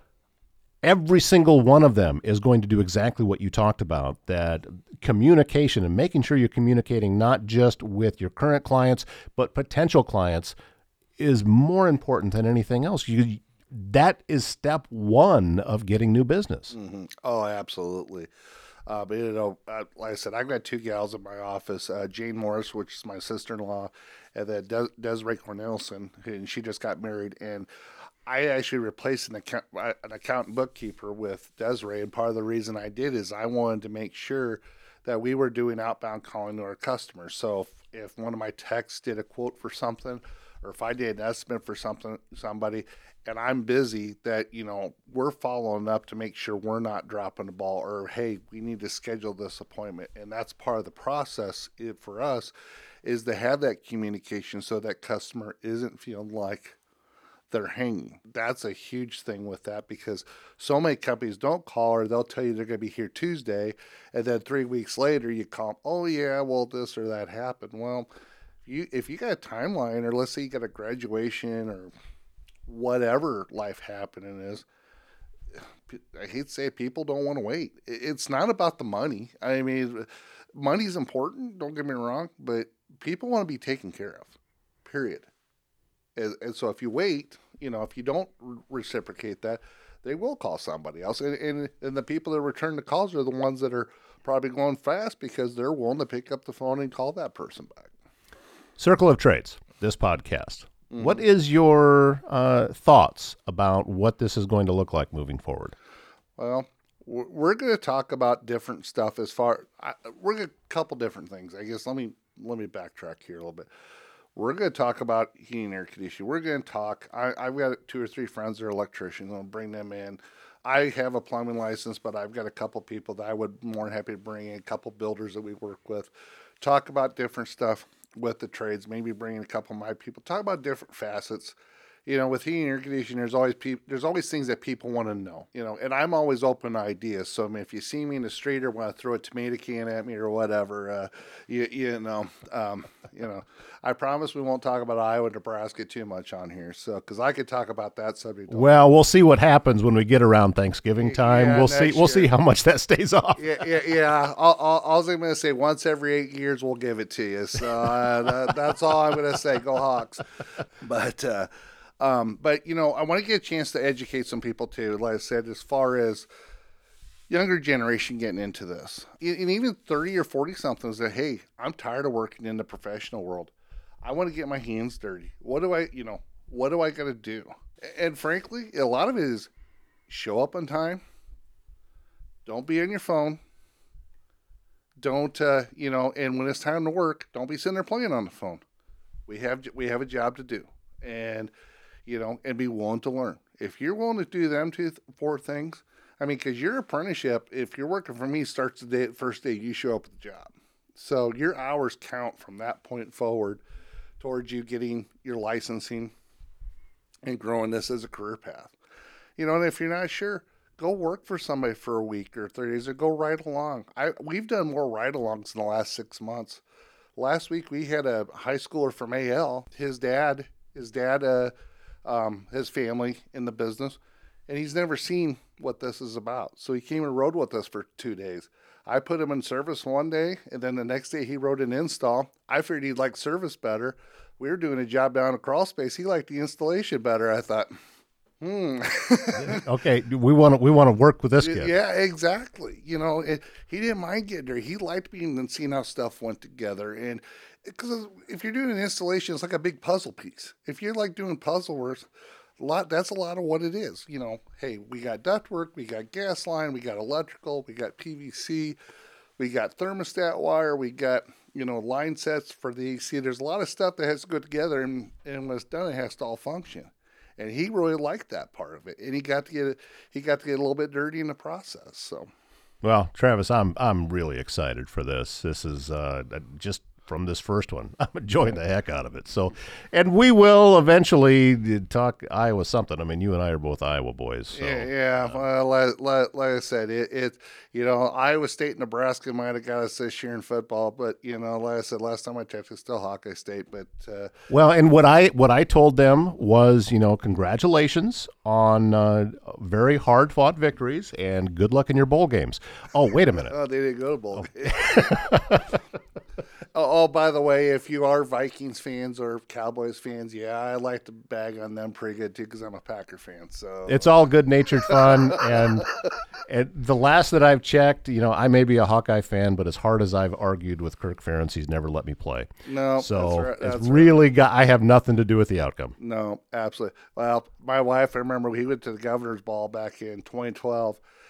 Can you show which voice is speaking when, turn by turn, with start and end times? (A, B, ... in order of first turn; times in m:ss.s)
0:00.8-0:10.5 A
0:11.2-0:16.7 A
0:16.7-0:18.3 B
0:18.8-0:27.7 B
0:28.2-0:52.5 B
0:53.0-0:56.8 B
0:57.5-1:08.1 B
1:08.6-1:11.9 B
1:12.7-1:14.6 B
1:15.5-1:25.3 B
1:26.2-1:37.9 B
1:38.8-1:45.8 A
1:40.9-1:41.2 B
1:46.4-1:53.7 B
1:54.4-2:28.7 B
2:28.5-2:33.4 A
2:31.0-2:32.3 B
2:33.4-2:46.3 B
2:47.3-2:53.5 B
2:54.0-2:59.5 B
3:00.1-3:01.0 B
3:02.4-3:03.4 B
3:05.0-3:08.6 B
3:09.3-3:11.5 B
3:12.0-3:23.6 B
3:24.2-3:26.1 B
3:27.2-3:28.7 B
3:29.4-3:36.6 B
3:37.2-3:41.5 B
3:42.0-3:57.7 B
3:58.4-3:59.6 B
3:59.3-4:01.7 A
4:01.4-4:12.1 B
4:12.6-4:18.8 B
4:19.4-4:32.3 B
4:32.8-4:45.4 A
4:44.5-4:54.3 B
4:54.5-5:03.5 A
5:03.4-5:05.6 B
5:04.5-5:05.8 A
5:06.7-5:14.1 B
5:13.9-5:26.0 A
5:14.9-5:15.6 B
5:22.6-5:24.3 B
5:26.0-5:31.0 B